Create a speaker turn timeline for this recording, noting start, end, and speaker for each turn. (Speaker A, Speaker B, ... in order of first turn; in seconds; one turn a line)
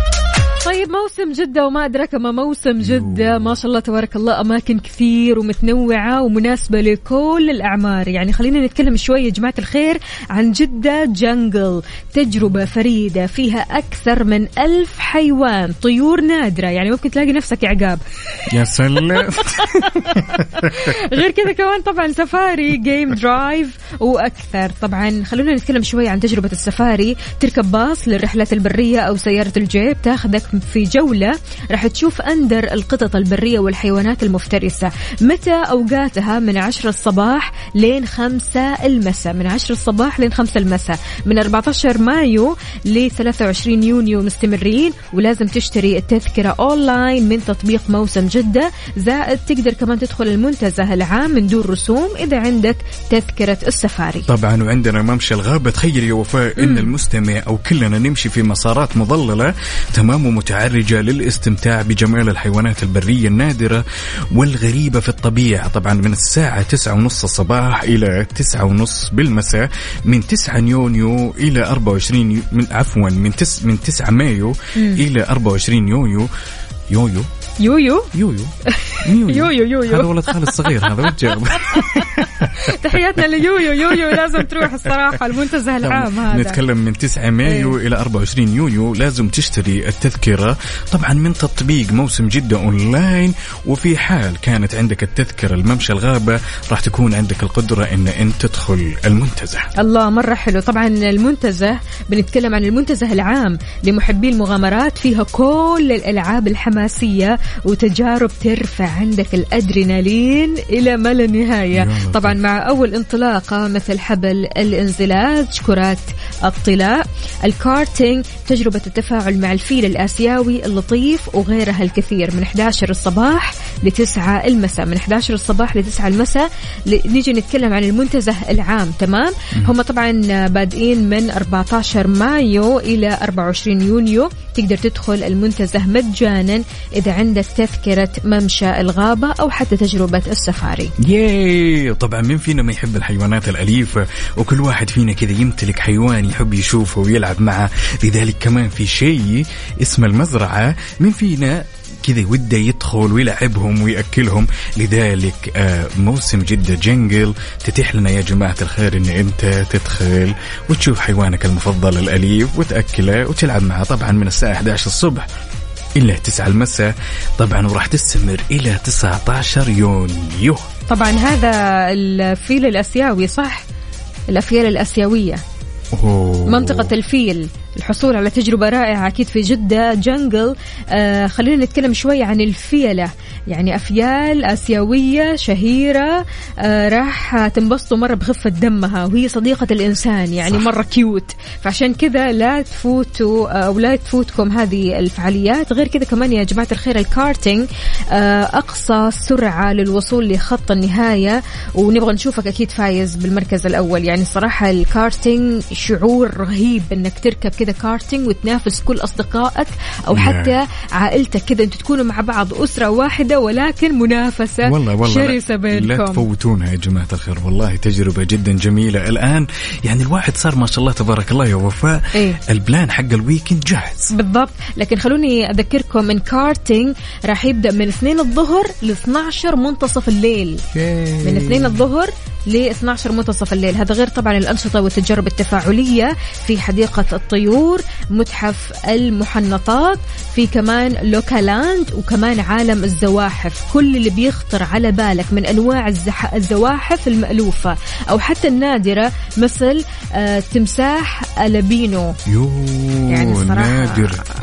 Speaker A: 0.6-18.5
Speaker B: 2.8-3.5
Speaker B: 18.5-21.0
Speaker A: 19.2-54.2
Speaker B: 54.3-76.3
Speaker A: 56.6-56.9
Speaker A: 74.8-75.0
Speaker B: 76.9-77.3
Speaker A: 77.6-78.1
Speaker B: 78.1-83.0
Speaker A: 78.7-86.6
Speaker B: 83.8-85.1
Speaker B: 85.8-99.7
Speaker A: 87.4-87.7
Speaker A: 99.8-140.9
Speaker B: 111.7-112.4
Speaker B: 141.0-165.3
Speaker B: 166.0-170.7
Speaker A: 170.9-173.6
Speaker A: 174.3-175.4
Speaker B: 175.9-176.9
Speaker A: 176.5-216.2
Speaker B: 210.1-210.6
Speaker B: 214.6-224.1
Speaker A: 224.1-230.6
Speaker B: 230.7-231.8
Speaker A: 231.2-252.2
Speaker B: 252.3-254.2
Speaker A: 253.1-254.1